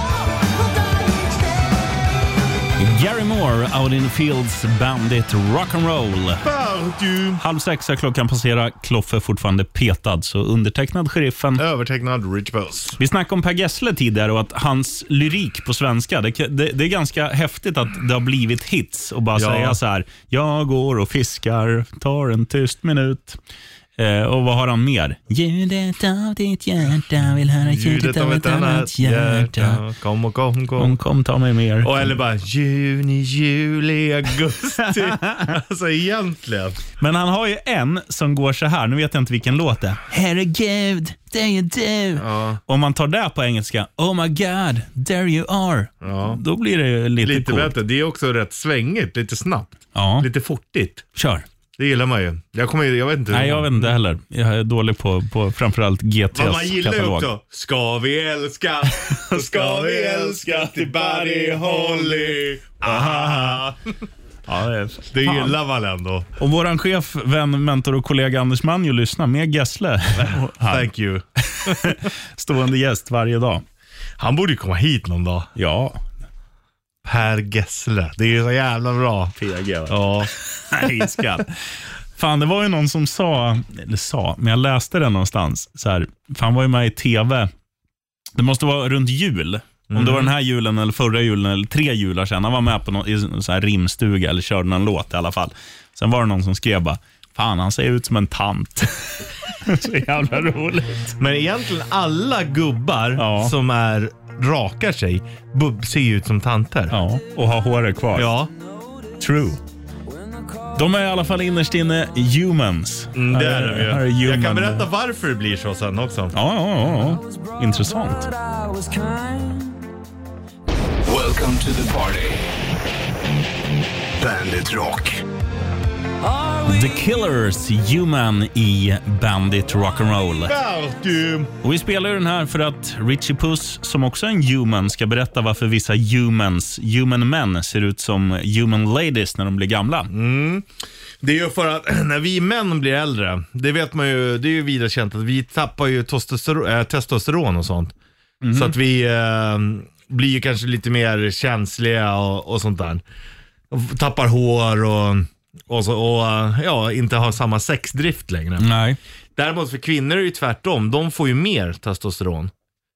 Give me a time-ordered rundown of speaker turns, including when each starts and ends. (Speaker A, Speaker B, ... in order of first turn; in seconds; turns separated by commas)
Speaker A: 2.8-6.4, Speaker B: 6.4-7.4, Speaker A: 7.4-11.6, Speaker B: 11.6-13.0, Speaker A: 13.0-23.4, Speaker B: 19.3-19.8, Speaker A: 24.0-29.8, Speaker B: 27.6-30.9, Speaker A: 30.8-32.1, Speaker B: 31.8-36.8, Speaker A: 34.8-35.5, Speaker A: 37.0-47.7, Speaker B: 42.2-42.6, Speaker B: 46.0-46.4, Speaker B: 47.2-51.0, Speaker A: 49.9-50.3, Speaker A: 51.1-51.4, Speaker B: 51.8-53.9, Speaker A: 53.3-57.3, Speaker B: 56.3-63.9, Speaker A: 59.0-63.6, Speaker A: 64.5-65.5, Speaker B: 65.1-66.3, Speaker A: 66.4-70.9, Speaker B: 70.2-72.0, Speaker A: 71.4-73.6, Speaker B: 74.2-75.5, Speaker A: 75.5-76.0, Speaker B: 77.0-79.3, Speaker A: 79.4-81.6, Speaker B: 79.9-80.3, Speaker A: 82.2-87.5, Speaker A: 88.3-101.1, Speaker B: 89.9-90.3, Speaker B: 101.2-106.9, Speaker A: 103.2-103.5, Speaker A: 106.9-108.3, Speaker B: 108.1-108.5, Speaker A: 109.2-109.6, Speaker A: 110.7-114.9, Speaker B: 113.1-116.3, Speaker A: 116.3-118.3, Speaker C: 121.0-122.4, Speaker C: 124.2-125.2, Speaker A: 126.6-130.5, Speaker B: 130.4-131.5, Speaker A: 131.6-140.1, Speaker B: 140.1-140.7, Speaker B: 141.2-147.9, Speaker A: 148.4-148.7, Speaker B: 148.5-153.0, Speaker B: 153.7-158.7, Speaker A: 158.6-159.0, Speaker B: 159.3-162.5